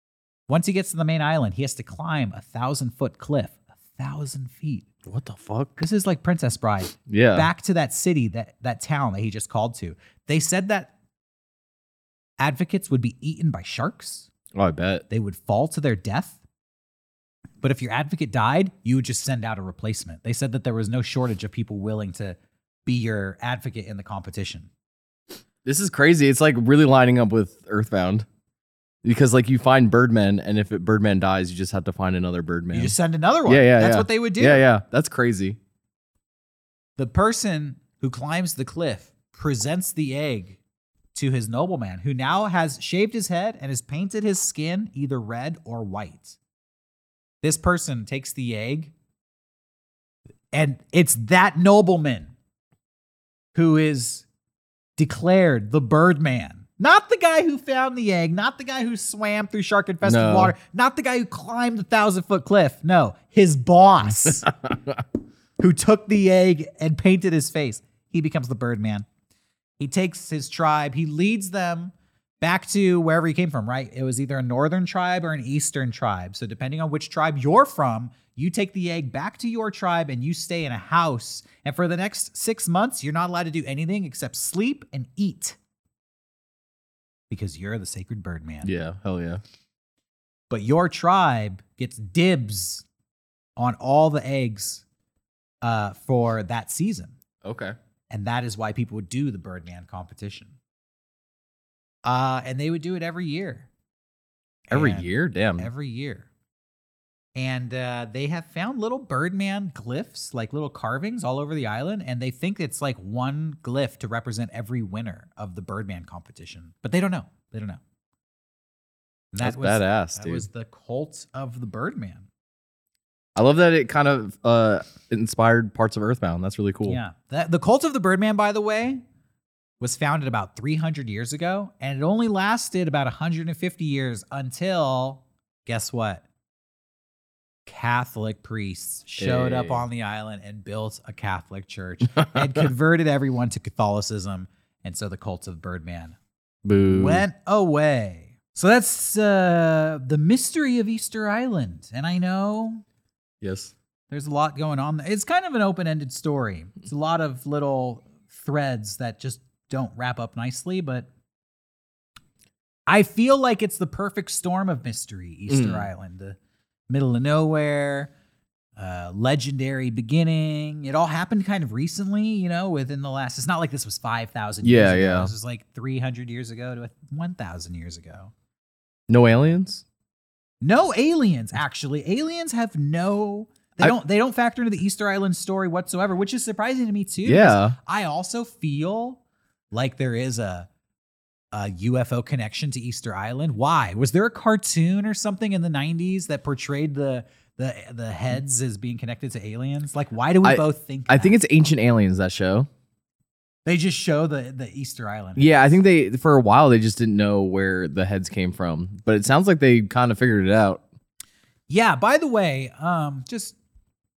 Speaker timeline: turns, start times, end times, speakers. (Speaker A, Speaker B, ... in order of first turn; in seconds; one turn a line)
Speaker A: 0.5-4.9
Speaker B: 5.0-5.8
Speaker A: 5.8-10.9
Speaker B: 7.1-7.5
Speaker A: 12.4-14.3
Speaker B: 14.5-15.0
Speaker A: 15.1-16.4
Speaker A: 17.6-24.7
Speaker B: 25.6-28.2
Speaker B: 29.0-33.0
Speaker A: 32.7-34.6
Speaker B: 33.5-35.6
Speaker A: 37.0-40.6
Speaker A: 41.1-46.4
Speaker A: 47.4-48.9
Speaker A: 50.5-52.3
Speaker A: 53.5-54.2
Speaker A: 55.0-64.5
Speaker B: 60.0-60.5
Speaker B: 64.5-65.0
Speaker A: 65.6-69.0
Speaker A: 69.8-85.6
Speaker A: 87.3-88.7
Speaker B: 88.6-89.4
Speaker A: 90.5-92.8
Speaker A: 93.6-94.8
Speaker A: 95.6-97.2
Speaker B: 97.4-97.8
Speaker A: 98.1-100.5
Speaker A: 102.0-103.7
Speaker A: 104.7-106.3
Speaker B: 104.7-105.7
Speaker A: 107.3-117.8
Speaker A: 119.3-122.3
Speaker B: 119.4-120.5
Speaker B: 123.3-127.0
Speaker A: 126.8-129.0
Speaker A: 129.8-136.2
Speaker A: 137.7-146.2
Speaker B: 139.2-139.8
Speaker B: 142.2-142.5
Speaker B: 146.6-147.2
Speaker A: 146.8-152.8
Speaker B: 153.4-153.7
Speaker A: 154.1-161.1
Speaker A: 162.9-166.3
Speaker B: 165.5-165.8
Speaker A: 166.9-168.1
Speaker A: 168.8-178.3
Speaker B: 174.6-175.3
Speaker B: 179.1-179.8
Speaker A: 180.6-189.2
Speaker B: 187.2-187.8
Speaker A: 189.7-190.7
Speaker A: 191.5-201.3
Speaker B: 200.4-202.7
Speaker A: 203.6-205.7
Speaker B: 205.3-210.8
Speaker A: 211.7-213.6